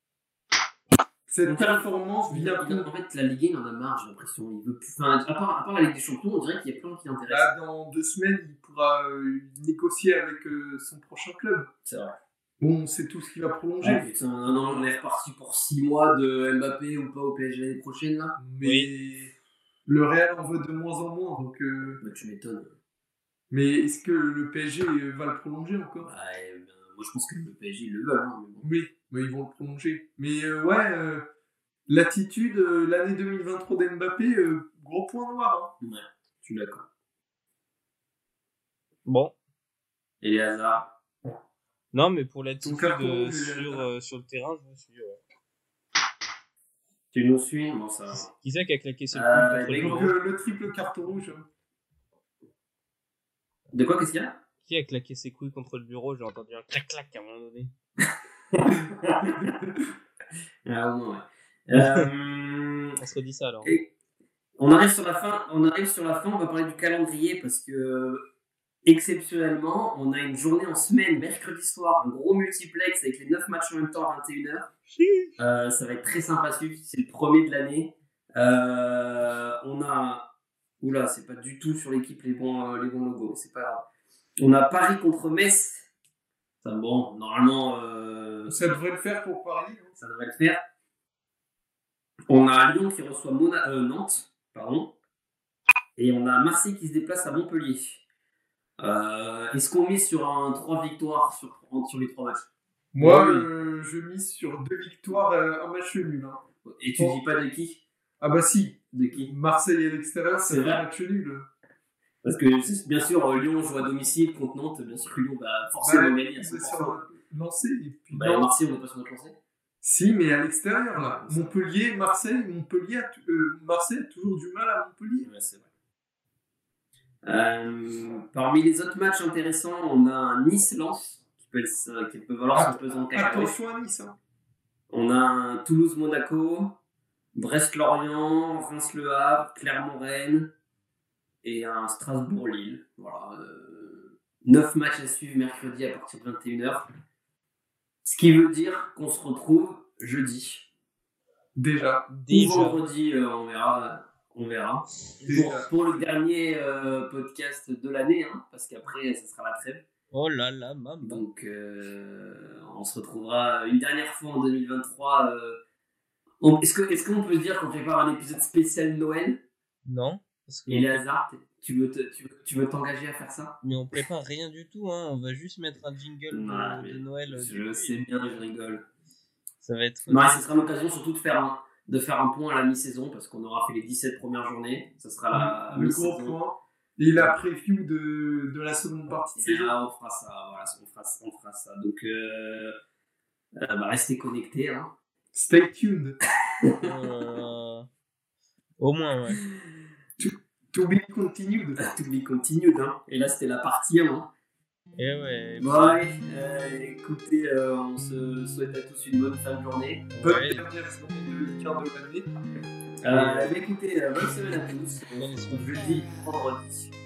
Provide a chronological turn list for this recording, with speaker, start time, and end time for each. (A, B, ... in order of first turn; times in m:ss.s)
0:01.3-0:02.9 A
0:01.4-0:07.5 B
0:07.3-0:11.7 A
0:11.8-0:12.2 B
0:12.6-0:14.1 A
0:13.8-0:18.4 B
0:18.4-0:19.3 A
0:18.6-0:18.9 C
0:19.8-0:22.0 A
0:22.0-0:22.8 B
0:23.5-0:26.1 A
0:26.0-0:28.7 B
0:28.6-0:31.2 A
0:31.9-0:35.7 A
0:35.8-0:36.9 B
0:39.0-0:39.3 C
0:40.2-0:41.0 B
0:41.9-0:45.2 C
0:42.6-0:43.9 A
0:47.1-0:48.3 B
0:48.1-0:50.1 C
0:49.1-0:50.1 B
0:49.8-0:51.4 A
0:53.7-0:54.4 B
0:54.6-0:57.7 C
0:58.0-0:59.5 B
1:00.6-1:03.0 B
1:01.7-1:02.1 C
1:03.0-1:03.8 C
1:04.6-1:08.2 B
1:08.8-1:14.7 B
1:14.9-1:15.3 C
1:15.4-1:20.3 B
1:20.8-1:23.9 B
1:24.4-1:25.9 B
1:26.6-1:28.8 B
1:28.5-1:30.0 A
1:30.0-1:30.6 B
1:32.3-1:34.9 B
1:36.0-1:38.0 B
1:38.8-1:42.5 B
1:42.9-1:46.4 A
1:43.0-1:43.5 B
1:46.6-1:47.8 B
1:48.2-1:51.5 A
1:48.9-1:49.3 B
1:50.4-1:50.8 B
1:52.2-1:57.0 B
1:55.8-1:58.5 A
1:58.1-1:59.4 B
1:59.8-2:05.3 A
2:00.9-2:01.5 B
2:05.2-2:05.7 B
2:07.2-2:13.6 B
2:12.5-2:14.1 A
2:14.9-2:16.8 B
2:17.3-2:20.5 B
2:21.4-2:26.9 B
2:28.0-2:30.7 B
2:31.6-2:32.1 A
2:32.1-2:32.8 C
2:32.3-2:39.8 B
2:35.2-2:35.5 C
2:35.2-2:35.7 A
2:40.1-2:41.2 C
2:41.0-2:45.6 B
2:46.4-2:49.4 B
2:49.8-2:51.0 C
2:50.7-2:53.6 B
2:53.6-2:57.9 C
2:56.3-2:58.8 B
2:59.6-3:00.4 C
3:00.1-3:06.4 B
3:05.3-3:09.7 A
3:09.3-3:12.8 B
3:13.6-3:14.9 B
3:15.3-3:16.2 A
3:16.6-3:16.9 B
3:16.8-3:17.9 C
3:18.8-3:19.4 C
3:20.2-3:21.8 A
3:21.8-3:24.3 B
3:25.0-3:26.0 C
3:25.6-3:30.1 B
3:30.1-3:30.6 C
3:30.2-3:32.3 A
3:33.0-3:36.9 B
3:33.1-3:33.6 C
3:35.2-3:35.8 C